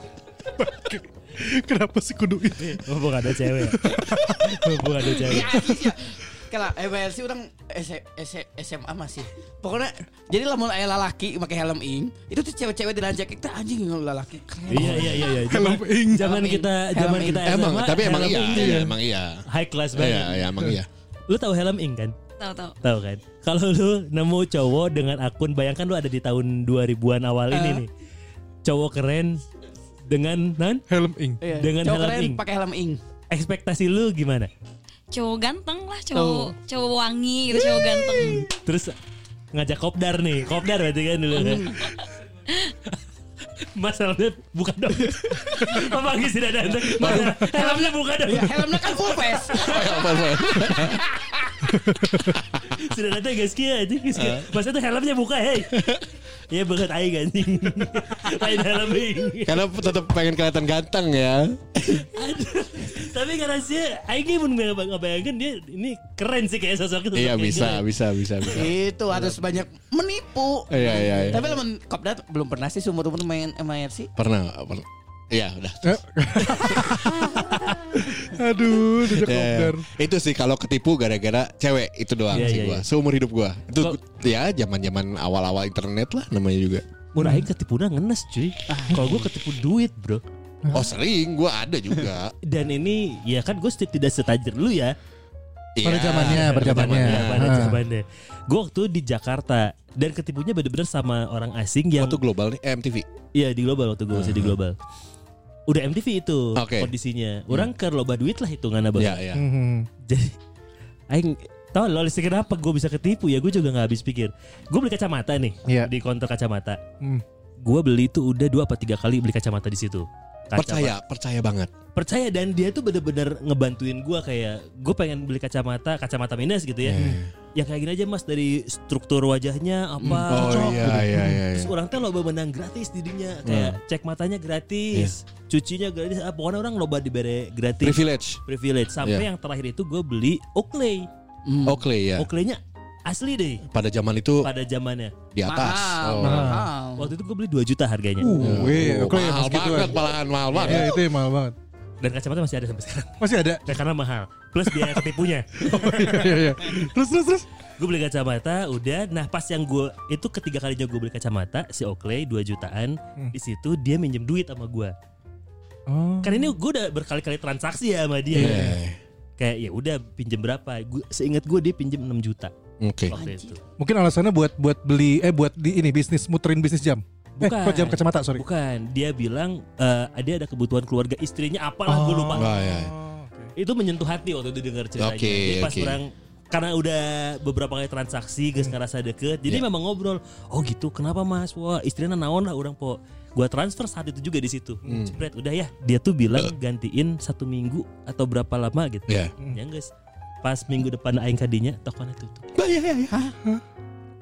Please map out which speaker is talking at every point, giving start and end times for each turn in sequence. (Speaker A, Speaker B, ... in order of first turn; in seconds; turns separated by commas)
Speaker A: 0.5-2.9, Speaker B: 2.6-5.5, Speaker A: 3.5-6.0, Speaker C: 5.1-15.4, Speaker A: 14.7-16.3, Speaker B: 14.7-18.9, Speaker C: 16.1-17.5, Speaker D: 17.4-19.4, Speaker A: 18.5-19.0, Speaker B: 19.5-20.5, Speaker D: 19.9-20.9, Speaker B: 21.3-22.2, Speaker E: 22.4-22.8, Speaker B: 22.8-27.9, Speaker C: 27.5-27.8, Speaker B: 28.6-29.4, Speaker B: 30.1-30.8, Speaker A: 30.9-31.4, Speaker C: 31.4-33.0, Speaker B: 31.6-32.4, Speaker B: 33.3-34.5, Speaker E: 35.1-38.5, Speaker C: 36.1-36.5, Speaker C: 38.2-38.4, Speaker B: 38.5-38.9, Speaker B: 39.5-41.8, Speaker C: 41.3-41.9, Speaker B: 43.7-49.0, Speaker D: 47.0-47.3, Speaker C: 47.0-51.1, Speaker D: 49.6-51.0, Speaker B: 51.9-55.9, Speaker D: 54.2-54.5, Speaker D: 55.7-56.0, Speaker B: 56.5-59.6, Speaker D: 59.5-62.1, Speaker B: 61.9-67.8, Speaker D: 67.2-68.8, Speaker C: 68.5-74.1, Speaker D: 70.7-71.5, Speaker D: 74.2-77.3, Speaker A: 75.8-79.9, Speaker D: 79.1-86.8, Speaker B: 82.3-82.8, Speaker B: 87.1-90.2, Speaker A: 87.2-87.5, Speaker C: 88.7-89.3, Speaker A: 90.6-90.9, Speaker D: 90.7-92.3, Speaker B: 92.5-94.9, Speaker D: 95.8-97.6, Speaker A: 95.8-97.8, Speaker B: 96.2-102.2, Speaker D: 102.0-103.0, Speaker B: 103.3-104.8, Speaker D: 104.1-104.6, Speaker B: 105.7-109.2, Speaker D: 106.6-106.9, Speaker D: 109.0-109.5, Speaker A: 109.3-109.9, Speaker B: 110.1-110.4, Speaker B: 111.1-116.8, Speaker B: 117.6-121.0, Speaker D: 120.5-121.7, Speaker B: 122.0-127.0, Speaker D: 126.8-127.3, Speaker A: 127.0-127.2, Speaker B: 127.5-141.1, Speaker D: 130.3-131.7, Speaker A: 130.3-131.4, Speaker D: 133.4-133.8, Speaker D: 137.8-138.4, Speaker C: 141.4-141.9, Speaker D: 141.7-142.3, Speaker B: 142.2-143.7, Speaker D: 143.7-144.5, Speaker B: 144.4-145.1, Speaker D: 145.3-146.6, Speaker C: 145.5-147.1, Speaker A: 146.2-146.7, Speaker B: 147.0-148.4, Speaker A: 148.2-150.1, Speaker D: 148.4-150.9, Speaker B: 150.5-150.8, Speaker A: 150.6-151.6, Speaker B: 152.0-156.3, Speaker A: 153.2-153.6, Speaker A: 154.7-155.0, Speaker A: 155.6-157.5, Speaker B: 157.8-164.9, Speaker A: 165.9-166.6, Speaker B: 166.2-168.7, Speaker A: 168.3-168.8, Speaker D: 168.3-169.0, Speaker B: 169.4-172.5, Speaker D: 172.8-173.2, Speaker B: 173.1-173.6, Speaker C: 173.1-173.5, Speaker A: 173.8-178.4, Speaker B: 177.4-182.5, Speaker A: 181.9-183.5, Speaker D: 182.3-182.9, Speaker B: 183.6-199.9, Speaker D: 185.0-186.0, Speaker D: 194.9-195.2, Speaker D: 199.1-199.3, Speaker B: 200.4-202.4, Speaker D: 202.6-203.2